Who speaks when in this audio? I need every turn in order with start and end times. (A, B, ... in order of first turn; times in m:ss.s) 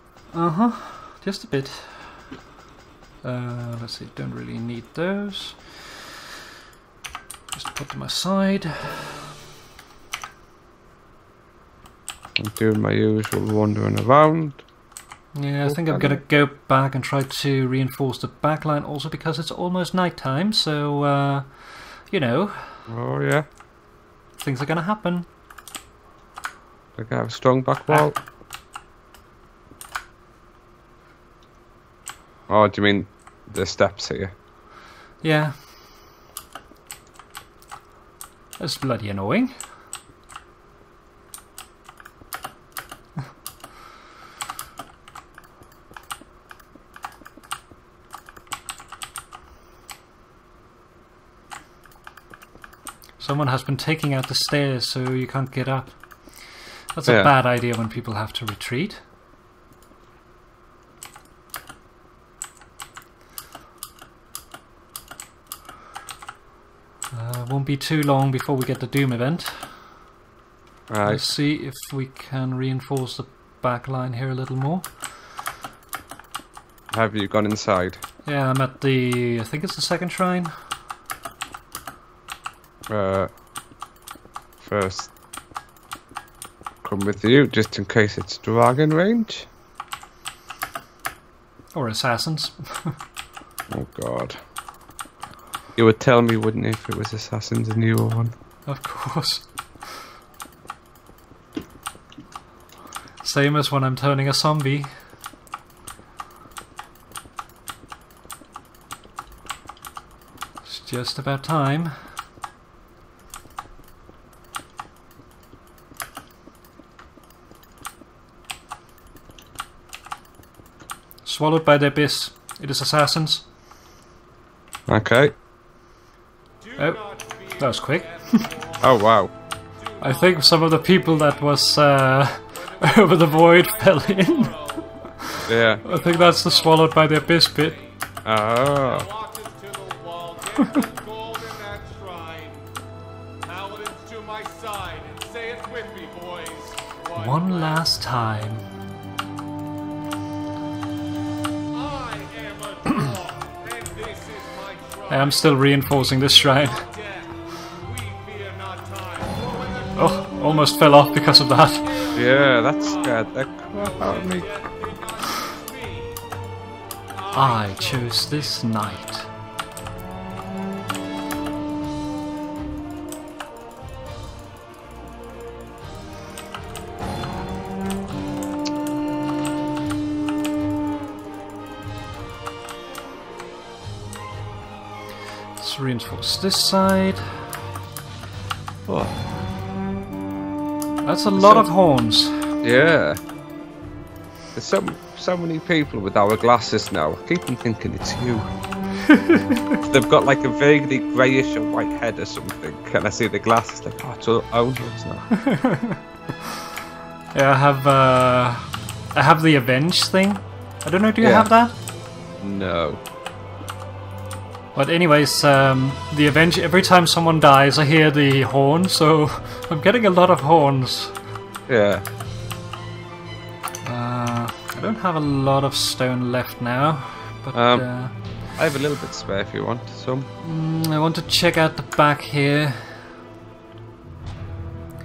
0:00.3-0:02.2 A
0:03.2-0:06.0 A
0:07.5-0:09.2 A
0:12.4-0:14.6 B
0:15.4-0:22.8 A
0:15.7-0:16.2 B
0:22.9-0:23.5 B
0:24.4-0:25.3 A
0:27.0-0:28.2 B
0:32.5-0:34.3 B
0:35.2-0:35.6 A
0:38.6-0:39.6 A
0:53.2-0:59.0 A
0:57.1-0:57.3 B
1:07.1-1:09.8 A
1:10.9-1:11.2 B
1:11.0-1:14.9 A
1:16.9-1:18.0 B
1:18.2-1:20.5 A
1:22.9-1:23.3 B
1:24.6-1:25.1 B
1:26.8-1:29.5 B
1:31.7-1:33.0 A
1:33.7-1:34.4 B
1:35.8-1:38.3 B
1:38.7-1:40.0 A
1:43.2-1:44.9 A
1:50.6-1:51.9 A
2:01.2-2:03.4 A
2:04.9-2:05.4 B
2:06.6-2:09.2 C
2:07.6-2:08.5 A
2:08.8-2:09.3 B
2:09.8-2:11.7 C
2:10.0-2:14.5 A
2:12.5-2:15.0 C
2:15.2-2:17.8 A
2:15.5-2:15.8 B
2:15.5-2:18.0 C
2:18.2-2:19.1 B
2:18.8-2:22.7 C
2:23.4-2:28.0 C
2:27.2-2:28.6 A
2:31.7-2:35.6 C
2:35.1-2:36.8 A
2:36.5-2:46.2 C
2:40.0-2:41.9 A
2:42.2-2:44.5 B
2:47.1-2:49.0 C
2:47.3-2:49.3 A
3:05.6-3:07.4 A
3:08.9-3:09.2 B
3:11.0-3:12.4 A
3:11.4-3:11.7 B
3:12.6-3:13.2 B
3:14.6-3:18.5 B
3:19.1-3:19.8 A
3:19.8-3:25.3 B
3:25.3-3:26.0 A
3:27.3-3:31.8 A
3:31.2-3:31.5 B
3:32.4-3:33.0 B
3:34.8-3:41.2 A
3:41.7-3:42.0 B
3:43.8-3:48.2 A
3:47.5-3:47.9 B
3:48.5-3:50.3 B
3:50.4-3:53.2 A